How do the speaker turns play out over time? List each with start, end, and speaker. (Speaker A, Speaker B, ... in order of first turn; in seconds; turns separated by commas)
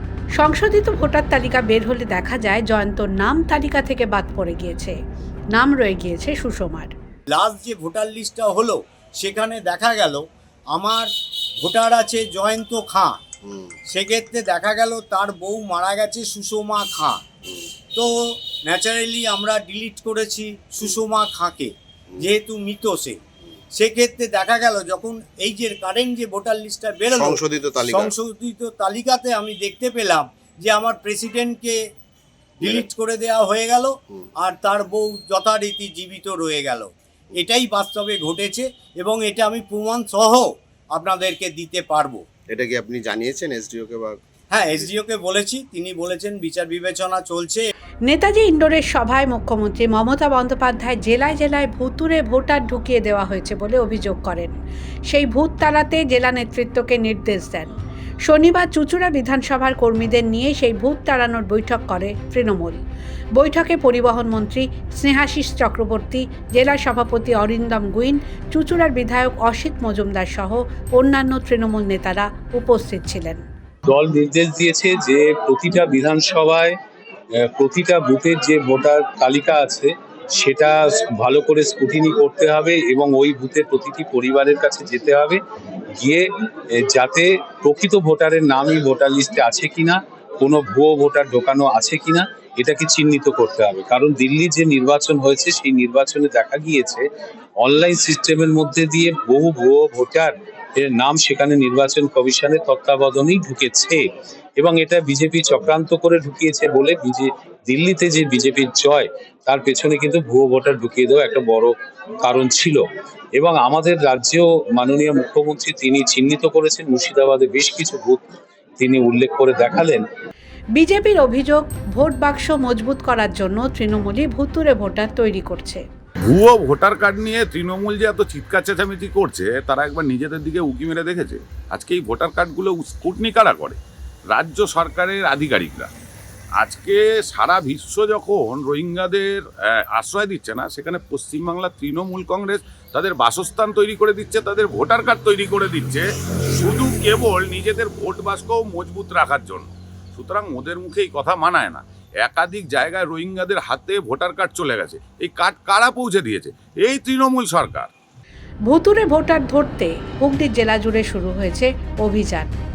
Speaker A: 0.4-5.0, Speaker A: 5.5-6.9, Speaker B: 7.3-10.2, Speaker B: 10.7-11.1, Speaker B: 11.6-13.2, Speaker B: 13.9-17.2, Speaker B: 18.7-23.2, Speaker B: 23.8-31.8, Speaker C: 27.1-28.1, Speaker C: 32.6-32.9, Speaker B: 32.6-42.2, Speaker C: 42.5-44.2, Speaker B: 44.5-47.7, Speaker A: 48.1-54.5, Speaker A: 55.1-57.7, Speaker A: 58.3-62.8, Speaker A: 63.4-73.4, Speaker D: 73.9-76.8, Speaker D: 77.4-85.4, Speaker D: 86.0-97.0, Speaker D: 97.6-104.0, Speaker D: 104.6-111.7, Speaker D: 112.2-112.8, Speaker D: 113.4-120.0, Speaker A: 120.8-125.8, Speaker E: 126.3-133.8, Speaker E: 134.3-135.9, Speaker E: 136.6-157.9, Speaker A: 158.7-162.5